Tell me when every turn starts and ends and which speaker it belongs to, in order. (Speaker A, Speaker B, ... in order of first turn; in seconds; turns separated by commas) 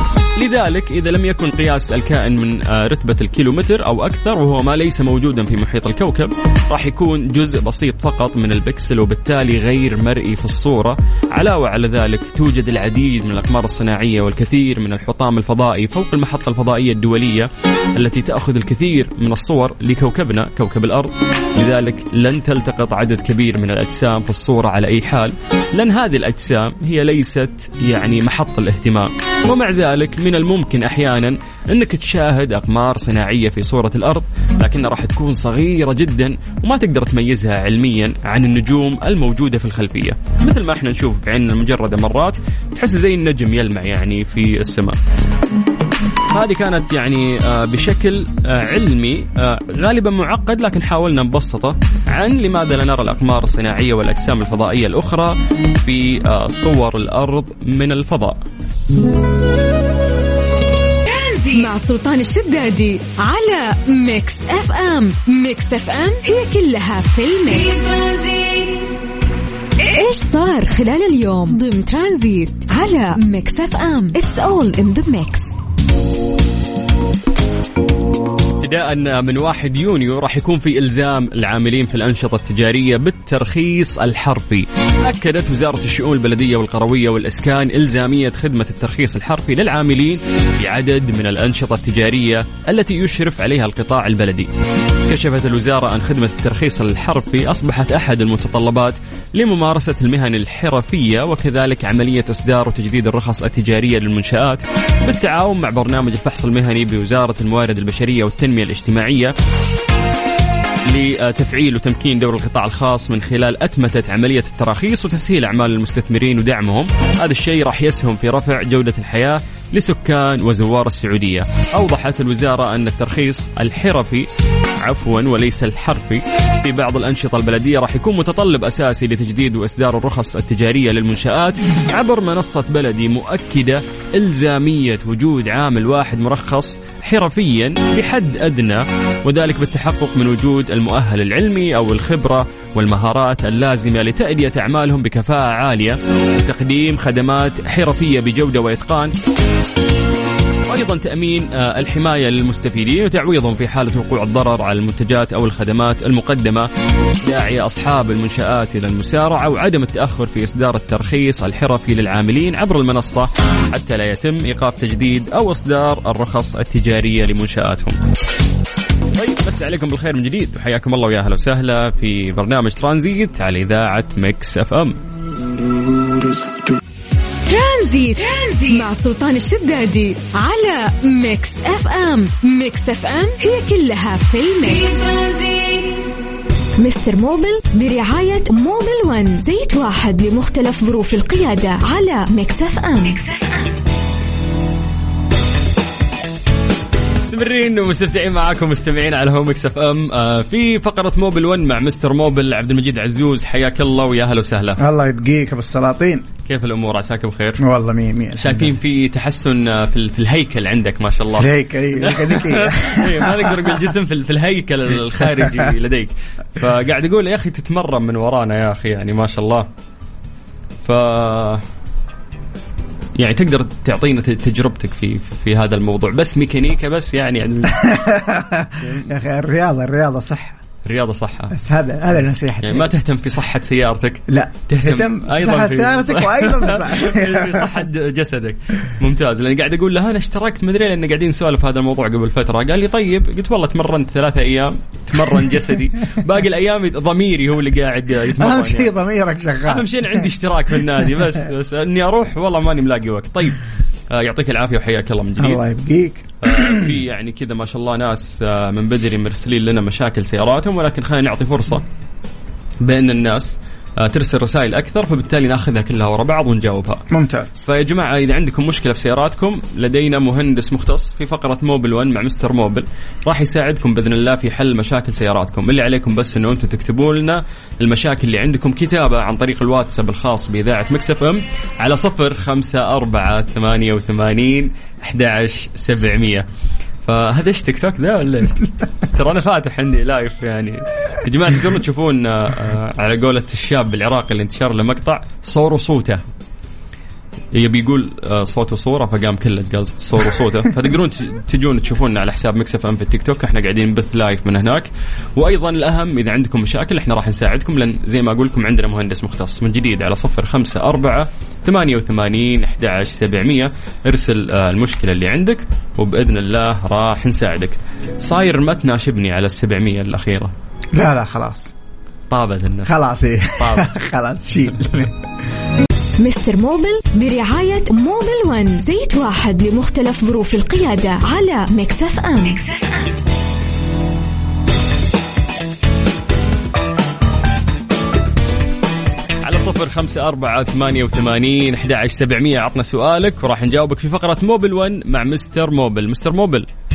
Speaker A: 0.3-45.0, Speaker A: 46.3-58.4, Speaker B: 61.0-68.8, Speaker B: 69.8-75.6, Speaker A: 78.6-94.5, Speaker A: 95.1-109.3, Speaker A: 110.9-124.2, Speaker A: 124.8-149.1, Speaker A: 150.7-156.7, Speaker A: 157.2-168.0, Speaker A: 169.2-175.0, Speaker B: 177.4-185.8, Speaker B: 186.8-193.2, Speaker A: 197.2-204.8, Speaker C: 204.8-206.3, Speaker A: 206.4-207.6, Speaker C: 207.6-208.7, Speaker A: 208.3-219.7, Speaker C: 211.3-213.7, Speaker A: 220.8-221.6, Speaker A: 223.2-228.0, Speaker C: 227.8-230.6, Speaker A: 230.8-231.5, Speaker C: 231.5-232.9, Speaker A: 232.6-248.9, Speaker C: 234.3-237.8, Speaker C: 248.3-250.3, Speaker A: 249.6-253.6, Speaker A: 254.1-255.6, Speaker C: 255.4-256.9, Speaker A: 256.4-261.8, Speaker A: 262.8-286.4, Speaker C: 267.1-267.5, Speaker A: 287.0-296.2, Speaker A: 297.5-320.5, Speaker C: 320.9-321.7, Speaker A: 322.3-322.9, Speaker C: 322.8-325.1, Speaker A: 323.6-323.9, Speaker B: 326.2-332.7, Speaker A: 339.4-346.7